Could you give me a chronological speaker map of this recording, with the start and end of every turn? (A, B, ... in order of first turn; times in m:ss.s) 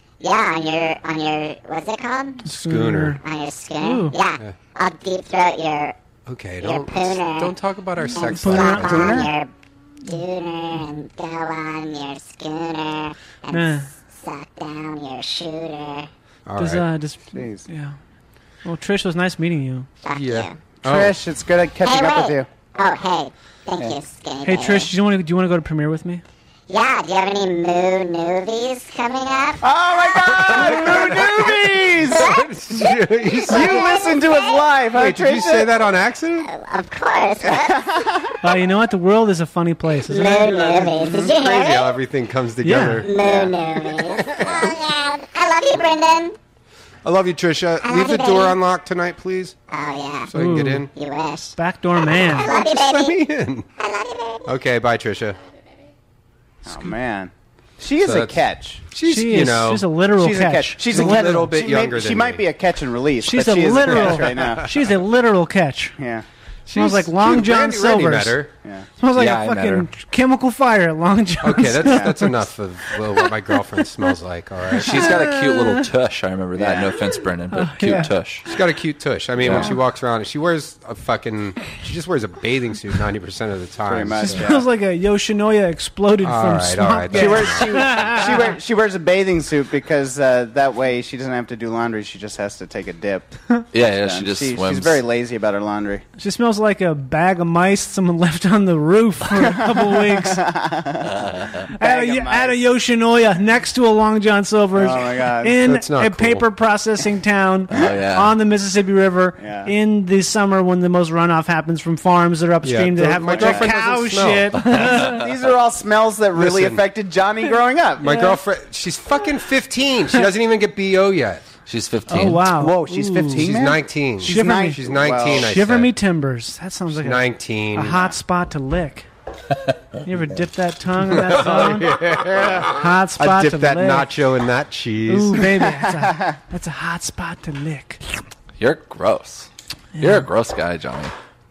0:00.2-0:02.4 A
0:02.4-0:03.2 B
0:02.5-0:03.2 C
0:03.2-0:05.9 A
0:03.8-0:04.2 B
0:06.3-0:09.3 C
0:06.6-0:07.5 A
0:08.1-0:09.5 A
0:08.1-0:09.1 B
0:08.8-0:09.3 D
0:10.0-0:16.1 A
0:13.5-0:13.9 B
0:16.4-0:16.9 C
0:16.6-0:18.0 B
0:17.3-0:17.7 D
0:18.6-0:19.9 B
0:20.0-0:20.6 A
0:20.1-0:21.2 C
0:20.8-0:22.5 D
0:21.8-0:24.9 A
0:24.4-0:26.2 B
0:26.7-0:29.6 A
0:29.6-0:32.3 D
0:30.2-0:33.9 C
0:32.0-0:34.6 A
0:33.5-0:35.7 D
0:34.9-0:36.5 C
0:36.4-0:37.8 A
0:37.4-0:38.4 D
0:38.4-0:40.7 B
0:40.1-0:41.9 A
0:40.7-0:43.1 C
0:42.6-0:43.1 B
0:43.0-0:46.4 A
0:43.1-0:43.6 D
0:43.9-0:44.5 C
0:44.2-0:44.7 D
0:47.0-0:49.5 C
0:47.8-0:48.6 A
0:49.7-0:50.3 A
0:50.3-0:50.9 C
0:50.3-0:50.9 B
0:50.9-0:53.2 A
0:51.6-0:52.5 B
0:52.4-0:53.7 C
0:53.8-0:54.5 A
0:54.5-0:55.4 C
0:56.6-0:58.8 D
0:58.0-0:59.9 C
0:59.0-1:01.5 B
1:00.2-1:04.7 D
1:00.8-1:02.4 C
1:03.2-1:06.0 B
1:03.9-1:04.7 C
1:06.0-1:06.2 D
1:06.7-1:08.4 B
1:06.7-1:08.5 C
1:09.0-1:12.4 B
1:09.1-1:09.9 E
1:11.4-1:15.2 C
1:11.8-1:12.1 D
1:14.8-1:18.4 E
1:14.9-1:15.8 B
1:16.5-1:17.0 D
1:17.5-1:18.1 B
1:18.5-1:24.5 C
1:19.4-1:19.7 E
1:23.9-1:24.6 D
1:24.2-1:28.6 B
1:26.2-1:27.9 C
1:27.1-1:36.0 D
1:33.7-1:35.0 E
1:36.2-1:40.5 B
1:39.4-1:42.6 D
1:41.0-1:41.7 E
1:41.7-1:55.3 B
1:44.7-1:45.6 D
1:45.6-1:46.4 C
1:47.7-1:48.3 E
1:49.4-1:49.7 D
1:52.6-1:54.6 C
1:53.3-1:53.7 D
1:55.0-1:58.1 D
1:56.3-1:56.8 C
1:58.0-2:01.5 C
1:58.0-1:58.4 B
2:01.6-2:02.6 E
2:02.1-2:03.5 B
2:02.4-2:05.5 D
2:03.3-2:05.9 C
2:04.2-2:09.1 B
2:06.9-2:08.1 C
2:10.0-2:12.0 B
2:11.1-2:15.4 C
2:12.6-2:14.2 B
2:15.0-2:18.0 B
2:15.6-2:16.4 D
2:18.6-2:21.1 E
2:20.0-2:20.2 B